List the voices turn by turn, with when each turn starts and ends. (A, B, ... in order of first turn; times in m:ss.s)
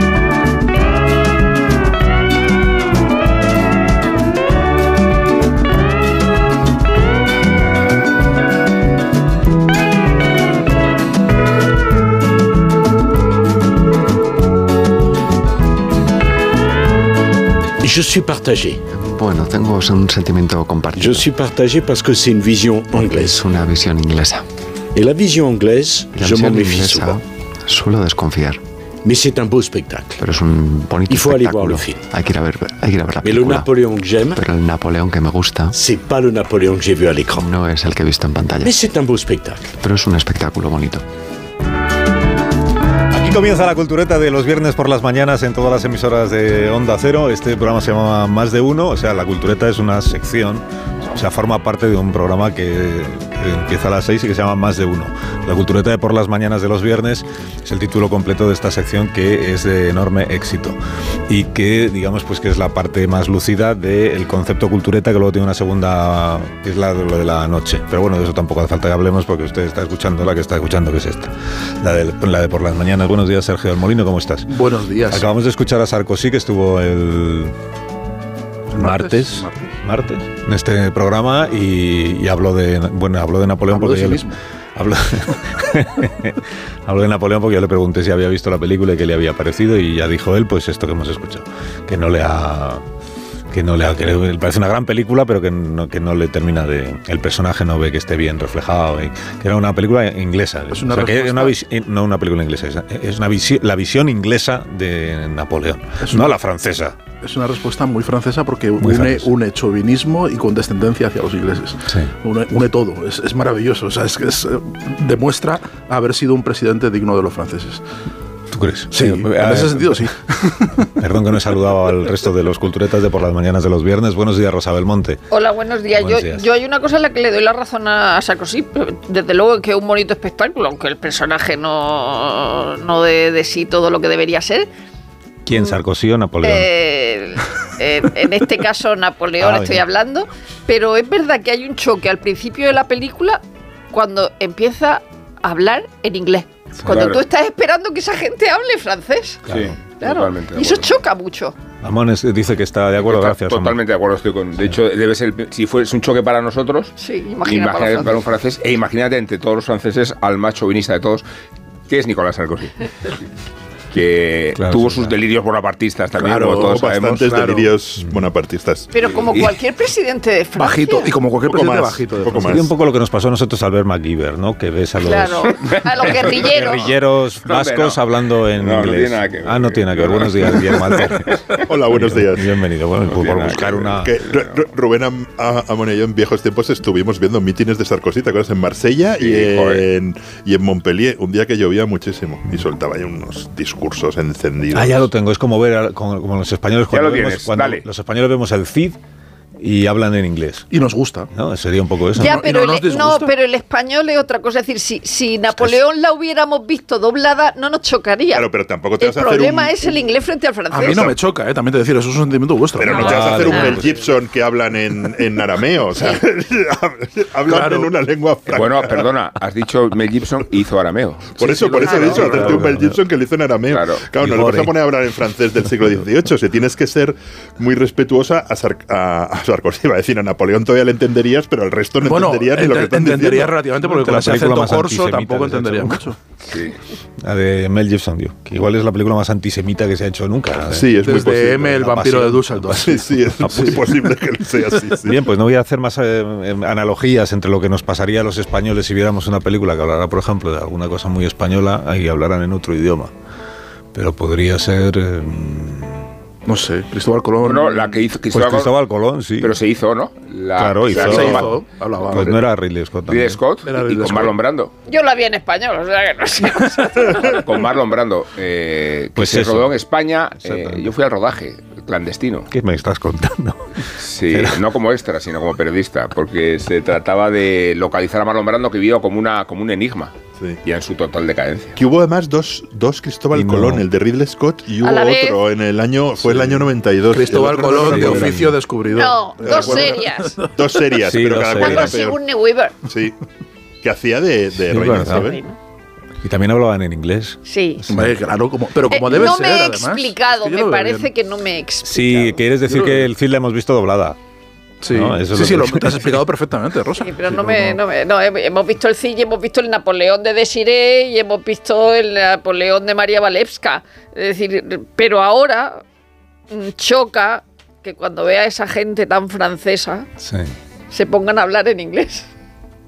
0:17.8-0:18.8 A
0:19.1-0:21.3 B
0:21.0-0:23.4 A
0:22.9-0:24.4 B
0:25.0-0:27.2 A
0:26.1-0:28.6 B
0:29.0-0:30.2 A
0:30.2-0:33.7 B
0:31.1-0:32.1 A
0:33.2-0:34.4 A
0:34.4-0:35.8 B
0:35.7-0:37.5 A
0:37.4-0:38.8 B
0:38.6-0:39.7 A
0:39.8-0:41.0 B
0:43.1-1:14.5 C
1:14.5-1:15.3 D
1:15.1-1:17.5 C
1:18.7-1:19.8 D
1:18.8-1:32.8 C
1:23.7-1:24.4 D
1:33.5-1:47.0 C
1:40.7-1:41.6 D
1:46.0-1:46.3 D
1:47.2-1:57.8 D
1:48.8-1:49.3 C
1:58.5-2:00.1 C
1:58.9-2:00.9 D
2:01.0-2:05.2 C
2:05.3-2:14.7 E
2:06.0-2:06.5 C
2:15.4-2:16.7 C
2:16.4-2:23.4 E
2:19.4-2:19.8 C
2:23.9-2:29.4 E
2:26.9-2:27.2 F
2:29.5-2:29.8 C
2:29.5-2:30.9 F
2:30.0-2:31.6 E
2:31.8-2:33.8 C
2:33.0-2:36.9 F
2:37.0-2:38.3 E
2:37.4-2:41.2 F
2:41.9-2:43.1 F
2:43.9-2:47.3 F
2:44.6-2:45.1 C
2:46.2-2:46.7 D
2:46.5-2:48.9 G
2:47.3-2:47.7 D
2:48.9-2:51.1 E
2:50.6-2:52.6 D
2:51.4-2:52.7 G
2:52.4-3:01.4 C
2:55.0-2:56.9 E
2:56.1-2:56.4 F
2:57.4-3:01.6 F
3:01.6-3:02.5 G
3:01.9-3:04.2 C
3:03.1-3:04.6 F
3:03.9-3:15.1 G
3:09.2-3:09.9 F
3:14.7-3:19.0 C
3:16.9-3:17.8 F
3:19.6-3:20.7 C
3:20.7-3:21.3 D
3:21.3-3:22.5 C
3:22.2-3:23.3 D
3:22.2-3:28.4 E
3:25.5-3:25.8 C
3:28.3-3:30.0 G
3:29.0-3:31.1 E
3:30.7-3:33.5 D
3:30.8-3:31.2 G
3:32.8-3:39.1 G
3:32.9-3:33.8 E
3:33.0-3:34.0 C
3:37.5-3:37.9 D
3:38.5-3:42.4 F
3:41.4-3:53.6 G
3:41.4-3:42.6 D
3:42.2-3:43.0 C
3:43.7-3:44.1 F
3:44.2-3:44.8 C
3:52.0-3:56.2 D
3:53.8-3:56.0 C
3:56.5-3:56.8 F
3:57.2-4:01.2 C
4:00.6-4:02.2 G
4:01.0-4:03.0 D
4:01.7-4:02.9 C
4:02.7-4:05.2 G
4:03.4-4:04.0 C
4:03.5-4:03.8 D
4:05.0-4:13.1 C
4:13.9-4:16.1 C
4:16.5-4:18.0 D
4:17.4-4:18.8 F
4:18.3-4:19.6 C
4:19.4-4:21.5 F
4:20.6-4:21.5 C
4:20.9-4:22.4 D
4:22.1-4:23.4 C
4:23.1-4:24.7 F
4:23.6-4:24.4 D
4:24.9-4:27.4 E
4:27.2-4:32.5 F
4:29.2-4:29.8 C
4:30.4-4:30.9 C
4:32.5-4:34.6 C
4:34.0-4:41.8 F
4:41.8-4:48.5 G
4:43.3-4:43.8 C
4:44.8-4:45.4 E
4:47.1-4:50.5 D
4:47.9-4:48.6 C
4:48.9-4:50.4 E
4:49.4-4:50.0 G
4:50.5-4:52.2 G
4:51.0-4:52.0 C
4:51.6-4:52.7 E
4:52.9-4:53.2 G
4:53.8-4:55.4 G
4:54.6-4:55.4 C
4:55.1-4:55.6 E
4:56.2-4:58.2 C
4:57.4-4:57.8 E
4:57.9-5:01.1 D
4:58.9-5:02.4 E
5:01.8-5:04.2 C
5:02.7-5:03.0 D
5:04.8-5:07.8 D
5:04.9-5:06.2 C
5:07.0-5:15.8 E
5:16.5-5:20.1 E
5:20.2-5:20.5 C
5:20.9-5:22.3 E